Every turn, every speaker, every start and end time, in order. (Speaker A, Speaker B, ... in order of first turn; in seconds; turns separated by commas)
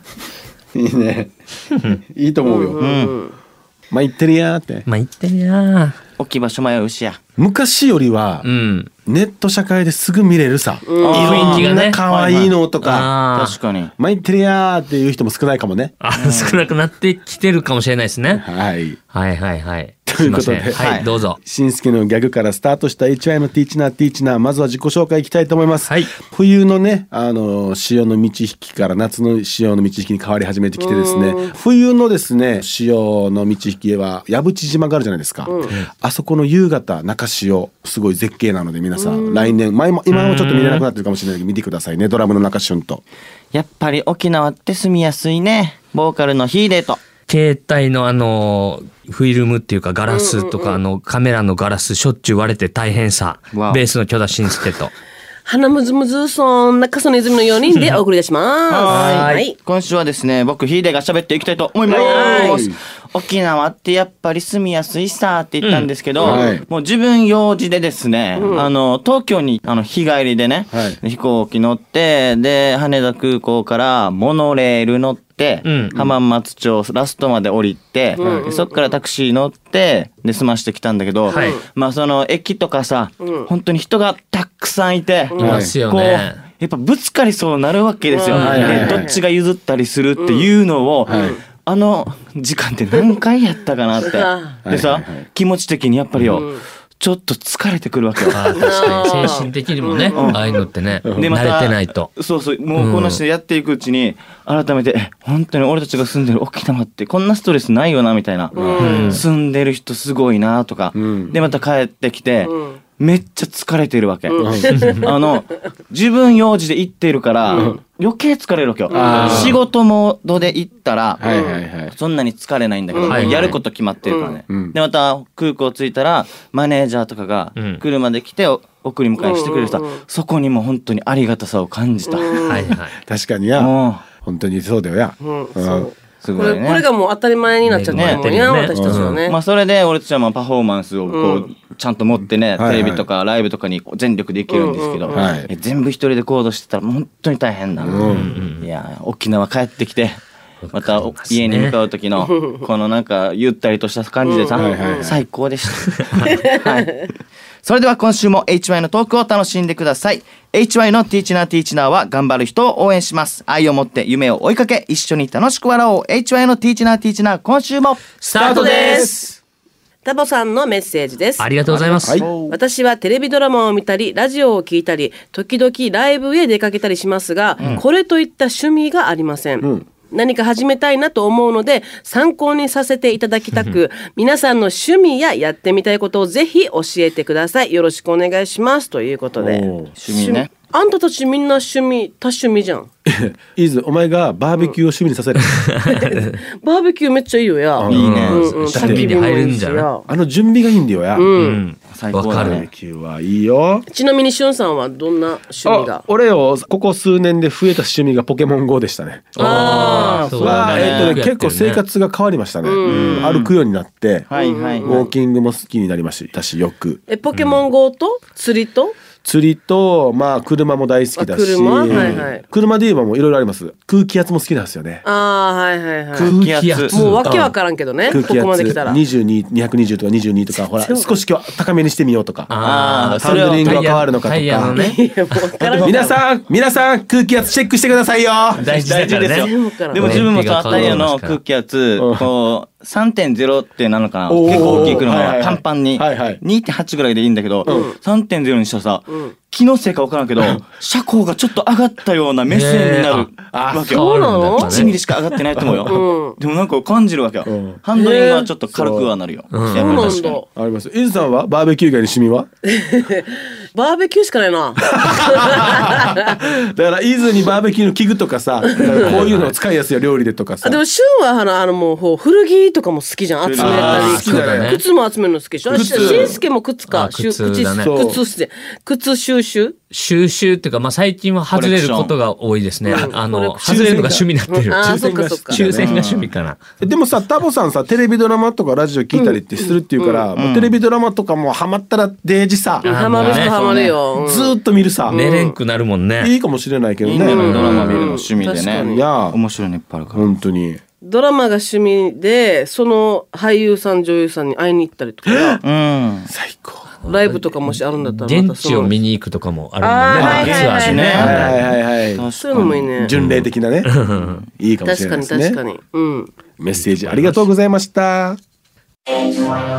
Speaker A: 0.7-1.3, Speaker A: 1.9-2.8, Speaker B: 2.4-3.4, Speaker C: 2.8-3.1, Speaker A: 3.9-4.9, Speaker D: 4.9-6.0, Speaker C: 6.2-7.2, Speaker A: 7.4-8.5, Speaker D: 8.4-8.9, Speaker A: 9.1-13.1, Speaker B: 10.9-11.4, Speaker C: 11.0-12.6, Speaker D: 11.1-12.0, Speaker D: 12.8-13.6, Speaker C: 13.3-13.9, Speaker A: 14.0-15.9, Speaker D: 16.0-18.4, Speaker C: 16.1-16.7, Speaker A: 18.4-19.0, Speaker D: 19.1-21.4, Speaker A: 20.1-43.0, Speaker C: 20.7-21.1, Speaker D: 25.8-26.1, Speaker B: 30.8-31.5, Speaker B: 35.5-35.7, Speaker B: 39.0-39.6, Speaker D: 40.1-40.9, Speaker C: 43.5-47.0, Speaker D: 47.3-54.9, Speaker B: 50.1-50.8, Speaker C: 53.5-53.8, Speaker B: 55.5-59.6, Speaker D: 57.7-58.0, Speaker C: 58.7-99.4, Speaker D: 58.9-59.4, Speaker A: 61.9-62.8, Speaker B: 61.9-62.7, Speaker D: 65.6-65.9, Speaker A: 66.2-66.7, Speaker B: 66.2-66.6, Speaker B: 68.4-68.7, Speaker A: 70.7-71.0, Speaker D: 75.6-75.9, Speaker B: 78.1-79.0, Speaker A: 78.2-78.5, Speaker D: 81.3-81.6, Speaker B: 81.3-81.6, Speaker B: 83.2-83.5, Speaker B: 85.3-85.7, Speaker D: 85.4-86.4, Speaker A: 85.4-85.7, Speaker B: 88.1-89.2, Speaker D: 88.3-88.7, Speaker A: 88.4-89.1, Speaker B: 90.2-90.5, Speaker B: 91.1-91.4, Speaker B: 94.0-94.6, Speaker A: 94.7-95.3, Speaker B: 96.3-96.6, Speaker D: 98.3-102.1, Speaker B: 98.4-100.7, Speaker C: 100.1-100.4, Speaker A: 101.0-101.3, Speaker C: 101.1-121.2, Speaker D: 102.8-103.2, Speaker B: 108.5-109.2, Speaker D: 108.8-109.2, Speaker A: 110.9-111.4, Speaker B: 112.4-112.8, Speaker B: 114.3-115.1, Speaker A: 114.4-114.7, Speaker B: 117.5-117.8, Speaker A: 117.5-117.8, Speaker B: 118.9-119.6, Speaker A: 118.9-119.6, Speaker A: 121.2-122.0, Speaker B: 121.2-121.6, Speaker C: 121.9-132.3, Speaker B: 122.9-124.4, Speaker D: 123.0-123.6, Speaker A: 124.5-124.8, Speaker D: 127.5-127.8, Speaker B: 129.2-130.0, Speaker B: 132.1-132.8, Speaker D: 132.4-133.0, Speaker A: 133.0-133.7, Speaker C: 133.6-134.0, Speaker A: 134.2-135.9, Speaker B: 135.2-139.4, Speaker C: 136.2-136.9, Speaker D: 137.6-139.2, Speaker C: 137.9-138.2, Speaker A: 138.7-139.2, Speaker C: 139.2-150.2, Speaker B: 141.1-141.5, Speaker A: 142.6-143.1, Speaker B: 144.5-145.4, Speaker A: 145.1-145.5, Speaker A: 147.8-148.3, Speaker D: 148.0-148.7, Speaker D: 150.6-151.8, Speaker C: 150.7-157.1, Speaker B: 154.2-155.1, Speaker A: 154.5-155.2, Speaker B: 156.3-156.7, Speaker C: 157.6-168.1, Speaker D: 168.2-169.1, Speaker B: 168.3-169.2, Speaker A: 168.4-169.4, Speaker B: 170.0-192.9, Speaker D: 171.4-172.2, Speaker C: 171.8-172.6, Speaker A: 172.0-172.3, Speaker A: 189.4-189.9, Speaker C: 190.0-190.5, Speaker A: 193.1-195.6, Speaker D: 195.5-196.3, Speaker B: 195.9-200.1, Speaker A: 197.8-199.2, Speaker C: 197.9-198.5, Speaker D: 197.9-199.9, Speaker A: 200.1-201.3, Speaker B: 201.2-201.6, Speaker D: 201.4-202.6, Speaker C: 201.9-202.7, Speaker A: 202.3-203.8, Speaker B: 203.9-206.0, Speaker A: 205.7-209.6, Speaker D: 209.3-211.8, Speaker B: 209.4-210.4, Speaker C: 209.5-211.2, Speaker A: 210.4-214.3, Speaker B: 212.6-213.3, Speaker C: 212.8-213.5, Speaker C: 214.3-215.1, Speaker B: 214.3-215.1, Speaker A: 214.8-217.0, Speaker B: 217.1-219.0, Speaker D: 217.3-217.6, Speaker A: 219.2-225.1, Speaker B: 221.2-222.4, Speaker C: 221.9-222.2, Speaker B: 225.0-226.3, Speaker C: 226.1-227.0, Speaker D: 226.3-227.3, Speaker B: 226.9-229.0, Speaker A: 227.0-232.5, Speaker B: 230.5-231.1, Speaker D: 232.5-235.0, Speaker C: 232.6-233.8, Speaker A: 233.1-234.8, Speaker B: 234.7-236.2, Speaker A: 235.8-238.7, Speaker D: 238.6-241.4, Speaker C: 238.7-260.4, Speaker B: 239.3-240.0, Speaker A: 240.0-241.0, Speaker A: 242.0-242.3, Speaker A: 244.3-246.4, Speaker D: 244.5-244.9, Speaker B: 247.7-248.0, Speaker B: 249.1-249.3, Speaker D: 252.5-253.3, Speaker A: 253.5-253.9, Speaker B: 253.9-254.9, Speaker D: 253.9-255.0, Speaker A: 255.5-256.0, Speaker B: 255.9-256.4, Speaker A: 257.4-257.8, Speaker B: 258.0-258.5, Speaker A: 258.7-259.1, Speaker D: 259.5-260.3, Speaker B: 259.7-260.5, Speaker A: 260.5-262.5, Speaker B: 262.7-266.2, Speaker A: 264.8-270.8, Speaker B: 268.6-269.3, Speaker D: 268.8-269.6, Speaker B: 270.6-279.8, Speaker C: 273.4-274.1, Speaker A: 273.6-274.8, Speaker D: 273.6-274.8, Speaker A: 275.7-276.4, Speaker C: 275.9-276.2, Speaker D: 276.9-278.0, Speaker A: 277.8-278.2, Speaker D: 279.9-286.6, Speaker C: 281.5-282.1, Speaker B: 282.9-283.9, Speaker A: 283.6-286.1, Speaker B: 284.5-285.6, Speaker C: 285.7-286.3, Speaker A: 286.8-292.9, Speaker B: 289.1-290.3, Speaker C: 290.4-290.8, Speaker D: 292.8-293.6, Speaker B: 292.8-294.6, Speaker C: 293.2-294.0, Speaker A: 294.2-295.2, Speaker B: 295.1-295.6, Speaker D: 295.1-296.3, Speaker A: 296.2-298.1, Speaker C: 297.0-300.3, Speaker B: 297.2-299.1, Speaker A: 298.8-299.4, Speaker A: 300.1-300.8, Speaker B: 301.0-305.6, Speaker A: 305.3-305.6, Speaker C: 305.6-306.3, Speaker A: 306.3-307.0, Speaker D: 307.0-311.8, Speaker B: 307.1-309.0, Speaker B: 309.8-311.4, Speaker A: 310.1-310.5, Speaker C: 310.2-312.9, Speaker A: 311.1-315.6, Speaker B: 312.4-313.1, Speaker D: 313.1-314.4, Speaker B: 314.9-316.3, Speaker A: 316.6-318.4, Speaker D: 316.7-317.5